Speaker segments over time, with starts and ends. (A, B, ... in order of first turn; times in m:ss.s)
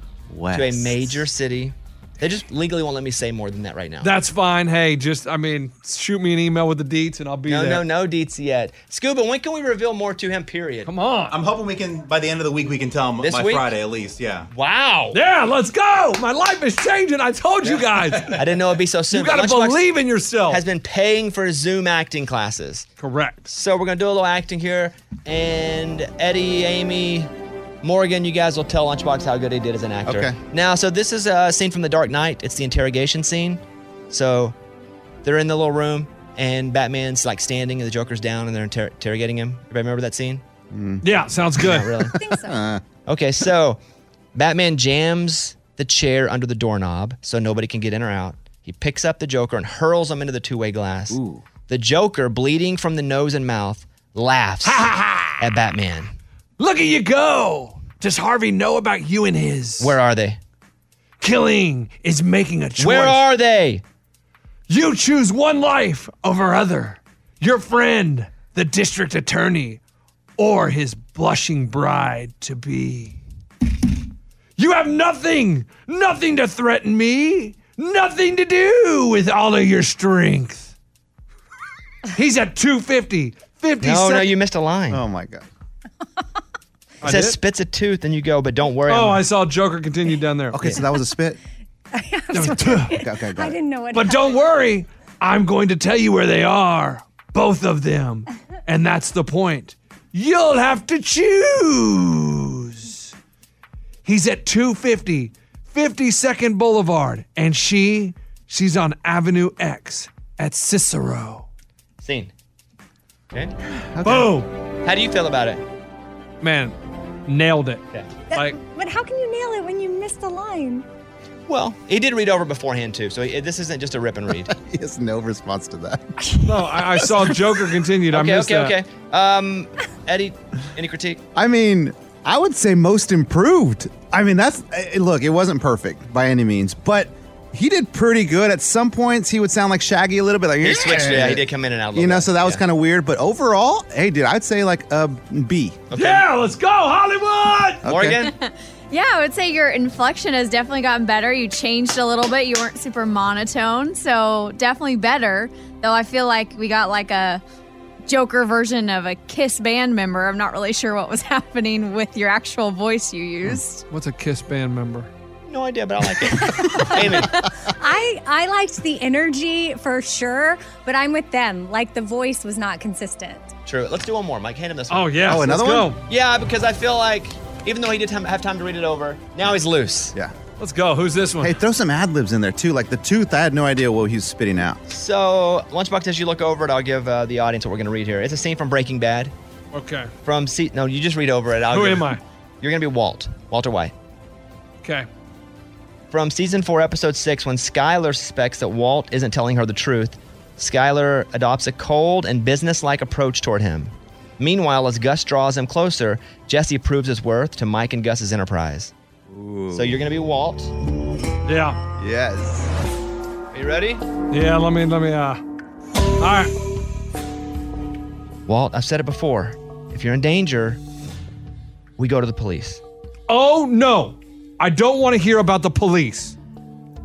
0:00.3-0:01.2 A
0:00.5-0:04.1 B
0:04.0-0:07.8 C
0:07.4-0:10.9 B
0:10.8-0:11.4 C
0:11.3-0:14.5 D
0:13.2-0:13.7 B
0:14.5-0:15.2 B
0:15.1-0:18.4 C
0:18.3-0:19.8 B
0:19.1-0:20.6 C
0:20.5-0:22.9 B
0:23.0-0:23.5 C
0:23.5-0:27.3 B
0:27.8-0:34.6 B
0:30.0-0:30.4 A
0:35.2-0:40.4 B
0:40.7-0:41.0 A
0:41.0-0:42.0 C
0:41.6-0:42.1 B
0:42.1-0:42.6 E
0:42.3-0:42.8 A
0:43.0-0:43.8 B
0:44.3-0:56.1 B
0:51.1-0:51.4 A
0:54.6-0:55.4 C
0:56.6-1:00.0 C
0:59.8-1:00.4 B
1:01.2-1:03.2 C
1:02.8-1:03.8 B
1:04.7-1:09.8 C
1:10.4-1:13.2 C
1:14.6-1:20.7 C
1:22.1-1:24.3 C
1:23.8-1:25.0 B
1:24.9-1:25.4 A
1:27.0-1:27.4 C
1:27.0-1:29.2 B
1:28.9-1:30.8 C
1:30.5-1:31.4 A
1:31.9-1:34.4 E
1:32.3-1:32.9 C
1:32.8-1:33.6 A
1:33.9-1:43.1 C
1:44.0-1:51.4 C
1:52.0-1:52.3 B
1:53.9-1:54.3 A
1:54.0-1:54.5 C
1:54.8-1:55.6 B
1:56.4-1:56.7 C
1:57.2-1:58.6 C
1:58.3-2:00.8 E
2:01.5-2:04.5 B
2:04.5-2:07.3 A
2:06.4-2:08.8 C
2:08.1-2:11.2 B
2:11.3-2:25.8 A
2:20.6-2:22.6 B
2:25.9-2:26.3 B
2:25.9-2:27.8 C
2:27.8-2:28.2 A
2:27.8-2:28.3 B
2:28.3-2:37.4 F
2:38.1-2:43.8 F
2:43.9-2:45.1 C
2:45.5-2:47.4 B
2:47.6-2:53.5 E
2:53.6-2:55.5 B
2:54.9-2:56.0 C
2:55.2-2:55.9 A
2:56.0-3:00.1 B
3:00.6-3:01.6 C
3:01.4-3:04.8 A
3:04.9-3:09.3 B
3:09.7-3:10.1 C
3:10.2-3:13.9 B
3:11.7-3:12.2 C
3:14.8-3:15.1 C
3:16.1-3:28.9 B
3:29.3-3:30.0 A
3:29.7-3:30.7 B
3:31.4-3:31.8 C
3:32.0-3:32.7 A
3:33.5-3:34.0 B
3:34.3-3:35.4 C
3:36.2-3:36.5 C
3:38.5-3:40.8 B
3:42.0-3:42.8 B
3:43.3-3:46.3 C